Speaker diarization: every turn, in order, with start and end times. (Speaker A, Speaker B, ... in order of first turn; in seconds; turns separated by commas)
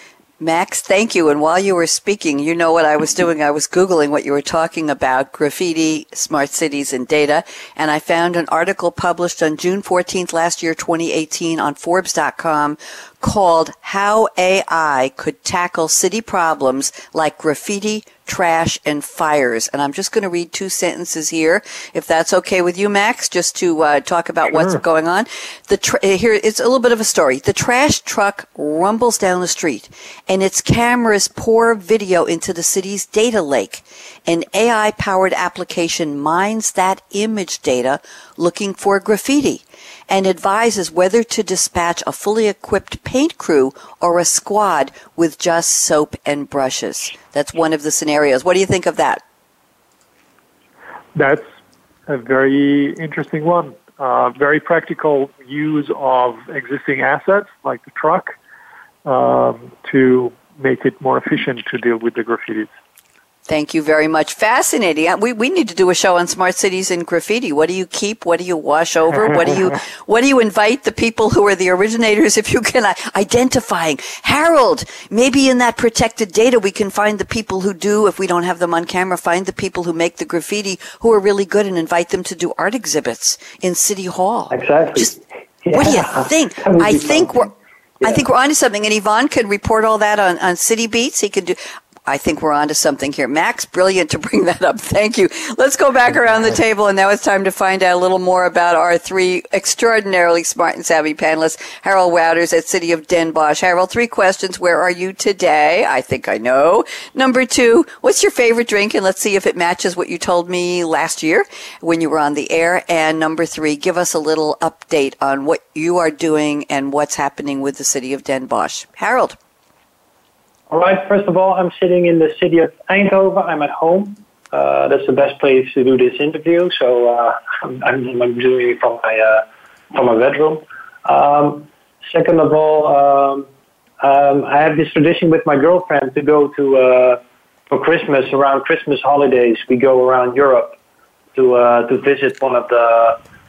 Speaker A: 0.4-49.2, Speaker B: 51.2-51.4, Speaker B: 52.1-58.3, Speaker B: 59.0-62.7, Speaker A: 63.5-85.1, Speaker C: 84.5-87.5, Speaker A: 85.7-119.4, Speaker C: 120.7-133.5, Speaker C: 134.0-140.8, Speaker C: 141.3-143.2